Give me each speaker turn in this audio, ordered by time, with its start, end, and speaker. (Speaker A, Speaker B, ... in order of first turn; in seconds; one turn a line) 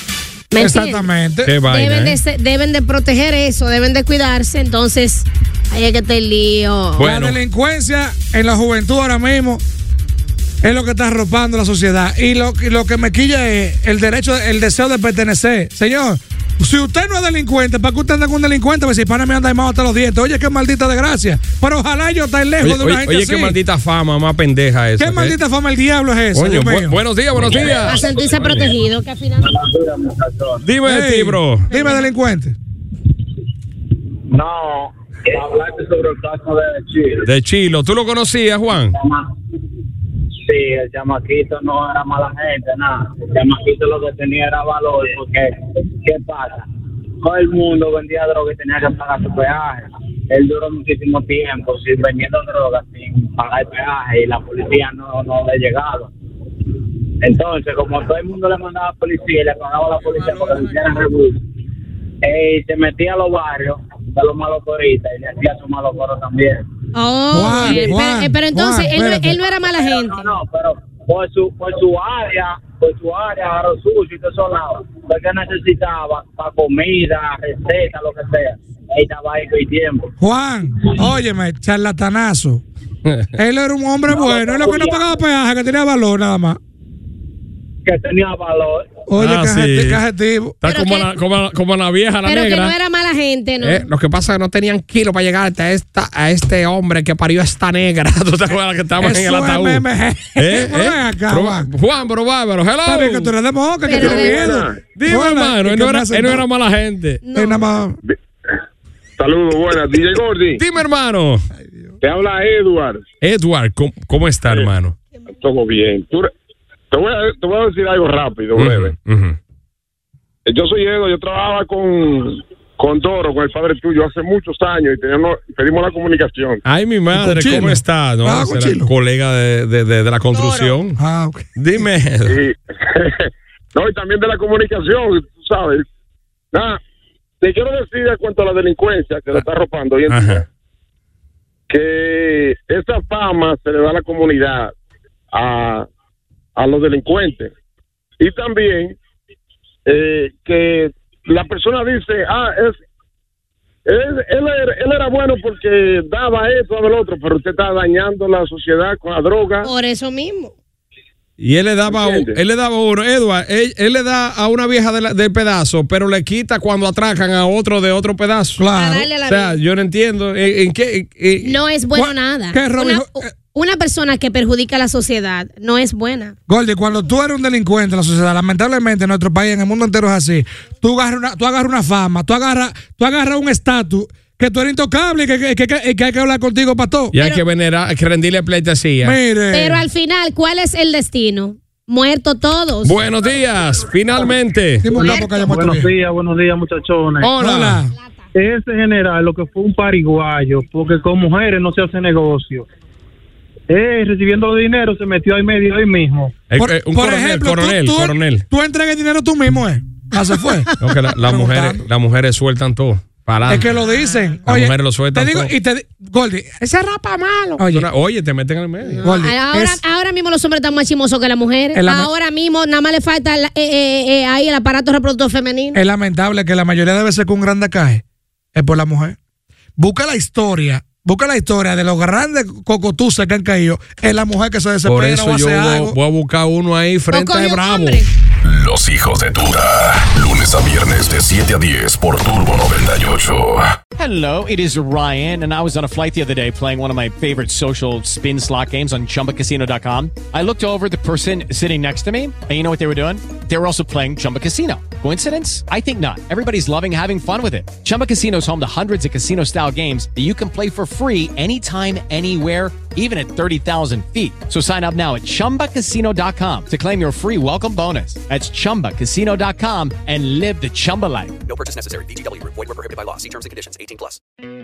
Speaker A: 0.5-1.1
Speaker B: 0.6-1.5
Speaker C: 1.4-2.2
Speaker A: 1.7-7.1
Speaker C: 7.0-7.4
Speaker B: 7.0-9.6
Speaker B: 10.6-23.6
Speaker C: 22.6-25.4
Speaker B: 25.0-27.0
Speaker C: 26.4-28.7
Speaker A: 27.6-29.6
Speaker D: 29.8-30.5
Speaker C: 30.6-31.7
Speaker B: 30.8-32.6
Speaker A: 31.7-32.1
Speaker D: 36.4-37.0
Speaker C: 37.2-39.0
Speaker D: 40.5-44.5
Speaker D: 47.2-49.8
Speaker D: 51.0-56.0
Speaker D: 57.3-58.8
Speaker D: 59.3-61.0
Speaker D: 62.3-66.6
Speaker A: 67.0-70.3
Speaker B: 67.3-69.4
Speaker D: 70.1-80.1
Speaker B: 80.2-82.6
Speaker C: 83.1-83.3
Speaker B: 83.4-86.6
Speaker D: 87.9-88.7
Speaker B: 89.1-90.6
Speaker C: 89.2-90.0
Speaker C: 90.6-92.7
Speaker A: 90.7-91.1
Speaker A: 92.3-93.9
Speaker C: 93.6-99.8
Speaker B: 99.0-101.7
Speaker C: 100.4-103.3
Speaker B: 102.8-106.4
Speaker A: 103.9-104.6
Speaker E: 104.0-104.8
Speaker C: 104.9-107.2
Speaker A: 107.2-107.7
Speaker B: 107.3-108.0
Speaker E: 109.2-110.6
Speaker C: 110.6-111.4
Speaker E: 112.0-113.0
Speaker C: 113.2-115.0
Speaker E: 115.3-116.3
Speaker E: 116.9-119.0
Speaker C: 118.5-119.4
Speaker E: 120.5-126.6
Speaker C: 126.7-131.0
Speaker B: 127.1-128.9
Speaker A: 130.3-130.7
Speaker B: 131.0-131.8
Speaker C: 131.6-132.4
Speaker E: 132.3-135.8
Speaker E: 136.5-136.8
Speaker E: 137.4-140.4
Speaker C: 140.1-140.4
Speaker E: 141.7-144.7
Speaker E: 145.3-145.9
Speaker E: 146.6-147.5
Speaker E: 148.2-148.9
Speaker E: 149.9-152.8
Speaker E: 153.9-159.7
Speaker A: 159.6-160.5
Speaker C: 161.4-168.6
Speaker E: 161.9-162.3
Speaker B: 168.6-169.1
Speaker A: 168.7-169.6
Speaker C: 169.2-171.6
Speaker A: 171.4-176.3
Speaker B: 171.9-173.3
Speaker B: 176.5-187.2
Speaker C: 187.1-189.2
Speaker B: 189.0-189.8
Speaker A: 189.5-193.0
Speaker C: 192.8-194.9
Speaker B: 194.8-195.9
Speaker A: 195.0-195.2
Speaker F: 195.4-197.2
Speaker C: 197.2-197.8
Speaker B: 197.3-197.9
Speaker F: 198.5-202.6
Speaker F: 203.8-206.2
Speaker C: 206.5-208.4
Speaker B: 206.6-211.8
Speaker C: 210.8-213.8
Speaker B: 213.5-216.6
Speaker C: 214.4-215.5
Speaker C: 216.6-219.0
Speaker B: 217.6-217.9
Speaker A: 219.0-225.8
Speaker B: 219.0-219.8
Speaker B: 221.7-222.1
Speaker B: 225.7-228.0
Speaker B: 228.6-229.2
Speaker B: 229.8-235.9
Speaker C: 234.8-238.0
Speaker A: 237.1-238.1
Speaker G: 238.4-243.7
Speaker H: 244.0-271.4
Speaker I: 271.4-274.2